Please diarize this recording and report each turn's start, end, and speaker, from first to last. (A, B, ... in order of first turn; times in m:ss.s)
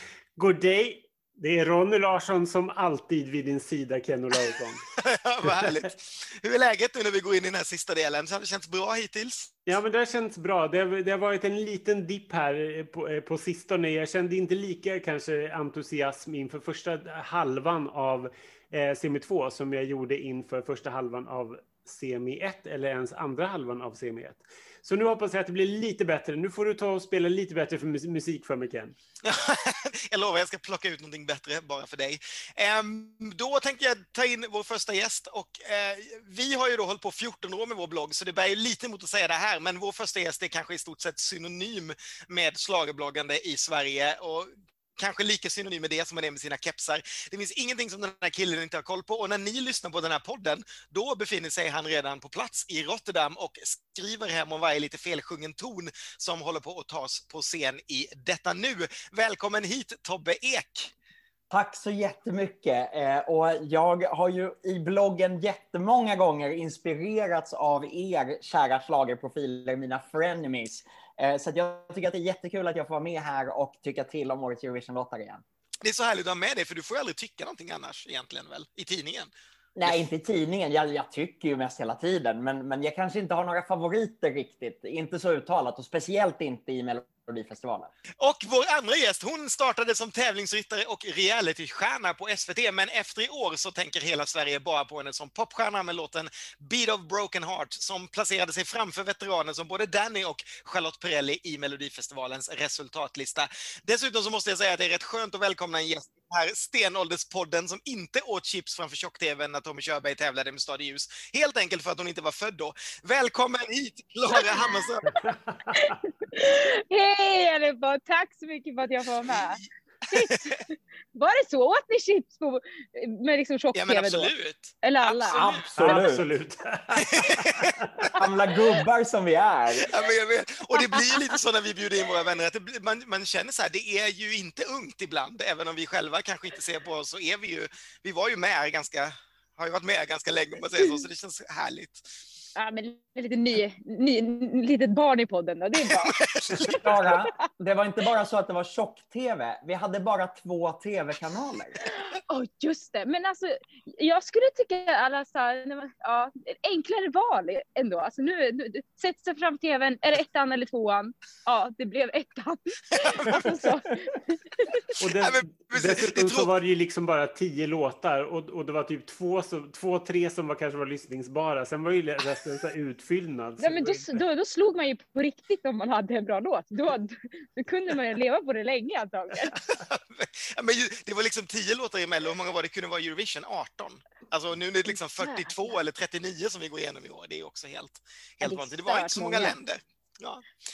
0:00.4-0:04.8 A
0:05.0-0:09.6 B
0:05.4-0:05.8 A
0:09.7-0:29.0 A
0:29.2-1:00.9 B
1:01.5-1:15.4 C
1:15.8-1:19.3 B
1:19.8-1:27.9 C
1:28.2-1:55.3 B
1:54.3-1:54.7 D
1:55.7-2:04.3 D
2:03.7-2:05.7 B
2:04.8-2:05.4 D
2:05.3-2:06.2 C
2:05.8-2:08.1 A
2:07.0-2:07.8 B
2:08.1-2:09.9 C
2:09.8-2:22.1 B
2:22.6-2:27.2 D
2:25.9-2:26.8 B
2:26.6-2:31.8 C
2:31.8-2:44.8 D
2:42.9-2:43.6 B
2:45.0-2:54.2 A
2:45.0-2:46.5 B
2:53.6-2:59.6 D
2:59.5-3:10.4 B
3:05.2-3:05.5 D
3:08.4-3:09.6 D